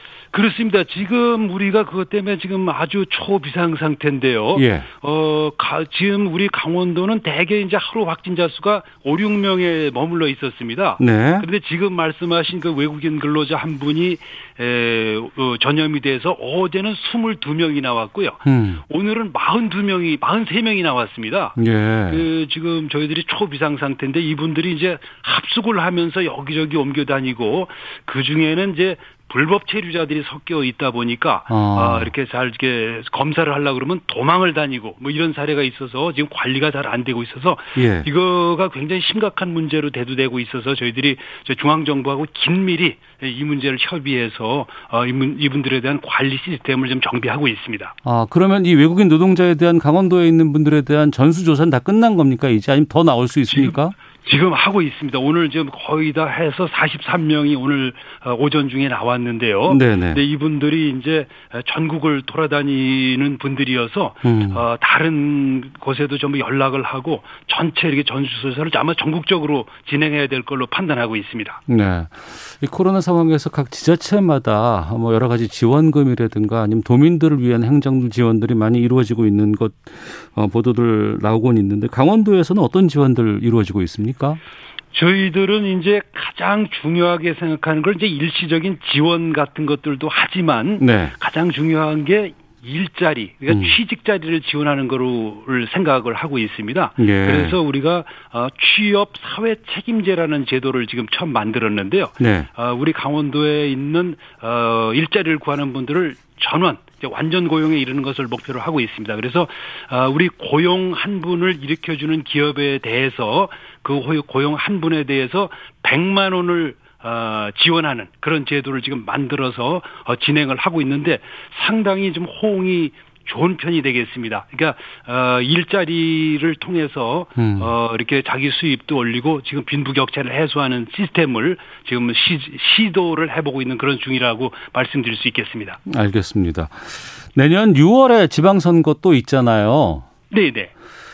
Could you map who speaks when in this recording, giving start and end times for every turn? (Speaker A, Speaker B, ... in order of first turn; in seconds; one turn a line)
Speaker A: 0.3-21.6
Speaker B: 4.5-4.9
Speaker B: 11.0-11.4
Speaker B: 18.4-18.8
Speaker B: 21.6-22.2
Speaker A: 22.1-47.9
Speaker B: 31.5-32.1
Speaker B: 37.7-38.1
Speaker B: 48.0-53.9
Speaker A: 53.5-71.6
Speaker B: 59.7-60.2
Speaker B: 64.2-64.6
Speaker B: 71.7-84.4
Speaker A: 84.9-135.8
Speaker B: 90.8-91.1
Speaker B: 93.5-93.8
Speaker B: 97.0-97.6
Speaker B: 102.2-102.5
Speaker B: 127.3-127.7
Speaker B: 135.8-140.1
Speaker A: 140.3-140.7